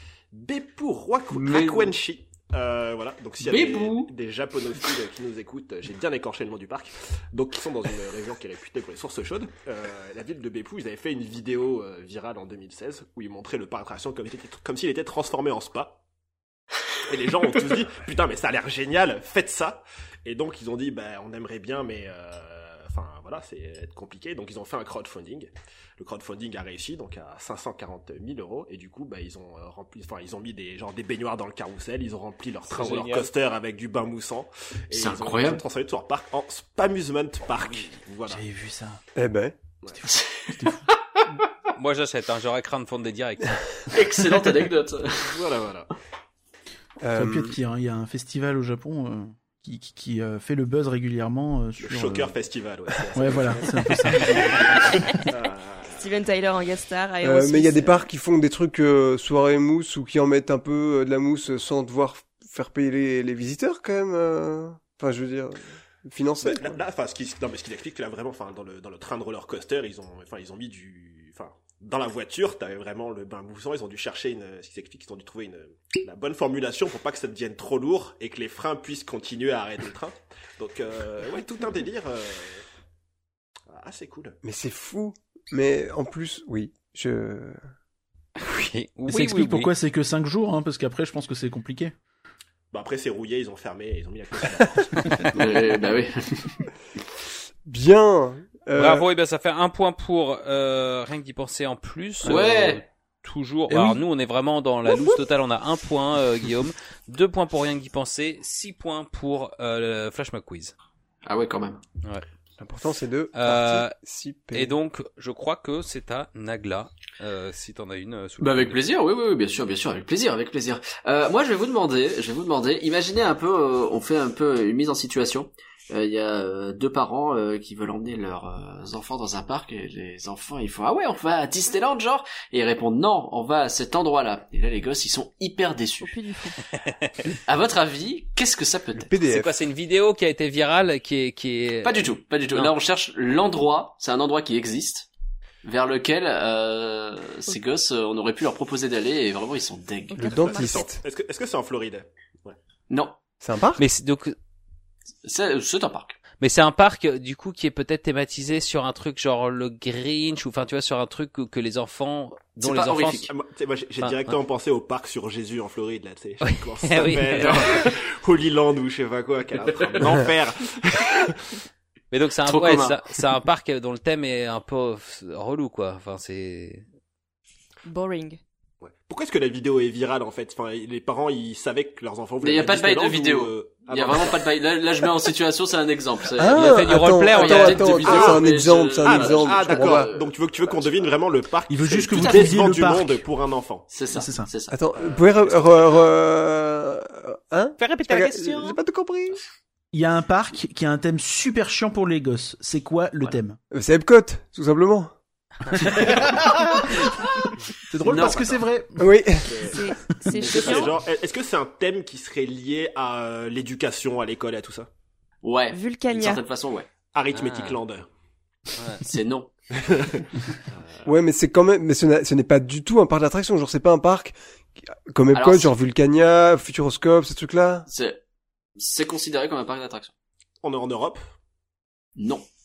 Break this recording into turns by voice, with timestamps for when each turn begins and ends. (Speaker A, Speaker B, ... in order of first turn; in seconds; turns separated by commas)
Speaker A: 0.3-16.0, Speaker B: 1.3-1.9, Speaker B: 3.4-4.1, Speaker A: 17.1-38.4, Speaker C: 32.7-33.3, Speaker B: 34.9-35.6, Speaker D: 38.3-39.0, Speaker E: 39.1-39.6, Speaker D: 40.0-40.9, Speaker B: 40.1-40.5, Speaker C: 41.7-43.6, Speaker B: 43.9-45.4, Speaker A: 45.2-45.9, Speaker E: 47.0-47.6, Speaker D: 47.1-52.4, Speaker A: 51.8-56.0, Speaker D: 53.1-54.7, Speaker F: 55.9-58.0, Speaker E: 57.2-66.8, Speaker A: 66.4-82.6, Speaker A: 83.7-84.4, Speaker E: 84.4-87.6, Speaker C: 88.4-89.7, Speaker D: 89.1-91.9, Speaker A: 92.7-95.4, Speaker C: 95.0-95.3, Speaker B: 95.3-96.6, Speaker E: 97.6-99.0, Speaker C: 98.7-110.7, Speaker B: 102.2-102.8, Speaker B: 111.2-111.8, Speaker E: 112.6-114.7, Speaker C: 113.3-113.9, Speaker C: 114.5-118.8, Speaker B: 118.4-136.2, Speaker F: 136.0-136.6, Speaker B: 137.4-139.1, Speaker E: 138.9-139.6, Speaker C: 139.2-142.7, Speaker B: 141.8-145.1, Speaker B: 145.6-150.2, Speaker E: 150.2-151.0, Speaker F: 150.2-150.9, Speaker A: 150.2-152.6, Speaker B: 152.9-153.2, Speaker E: 153.4-153.8, Speaker C: 153.8-154.3, Speaker B: 155.2-156.2, Speaker C: 156.4-163.3, Speaker B: 162.6-163.3, Speaker A: 163.3-171.4, Speaker C: 164.0-164.3, Speaker C: 166.4-167.7, Speaker B: 167.4-167.9, Speaker B: 169.7-170.1, Speaker C: 172.1-176.8, Speaker B: 172.4-173.2, Speaker F: 177.8-178.4, Speaker A: 178.8-184.4, Speaker B: 182.4-191.1, Speaker E: 186.4-190.1, Speaker C: 186.5-188.2, Speaker A: 188.0-193.9, Speaker D: 191.7-193.2, Speaker B: 192.1-192.6, Speaker B: 193.9-194.8, Speaker D: 194.1-194.5, Speaker E: 194.7-199.4, Speaker A: 194.9-195.8, Speaker D: 199.9-203.6, Speaker E: 203.7-205.1, Speaker D: 205.7-209.1, Speaker B: 208.0-208.6, Speaker A: 208.2-208.5, Speaker E: 209.0-209.6, Speaker A: 209.4-209.8, Speaker F: 209.6-211.0, Speaker B: 210.3-210.9, Speaker A: 210.4-214.9, Speaker B: 215.4-216.9, Speaker F: 215.7-216.4, Speaker A: 217.1-218.1, Speaker C: 217.3-217.8, Speaker C: 218.8-219.0, Speaker B: 219.0-219.5, Speaker A: 219.8-221.1, Speaker E: 221.1-227.9, Speaker B: 225.3-225.7, Speaker B: 227.9-228.2, Speaker B: 228.8-230.1, Speaker A: 230.6-231.3, Speaker B: 232.2-232.4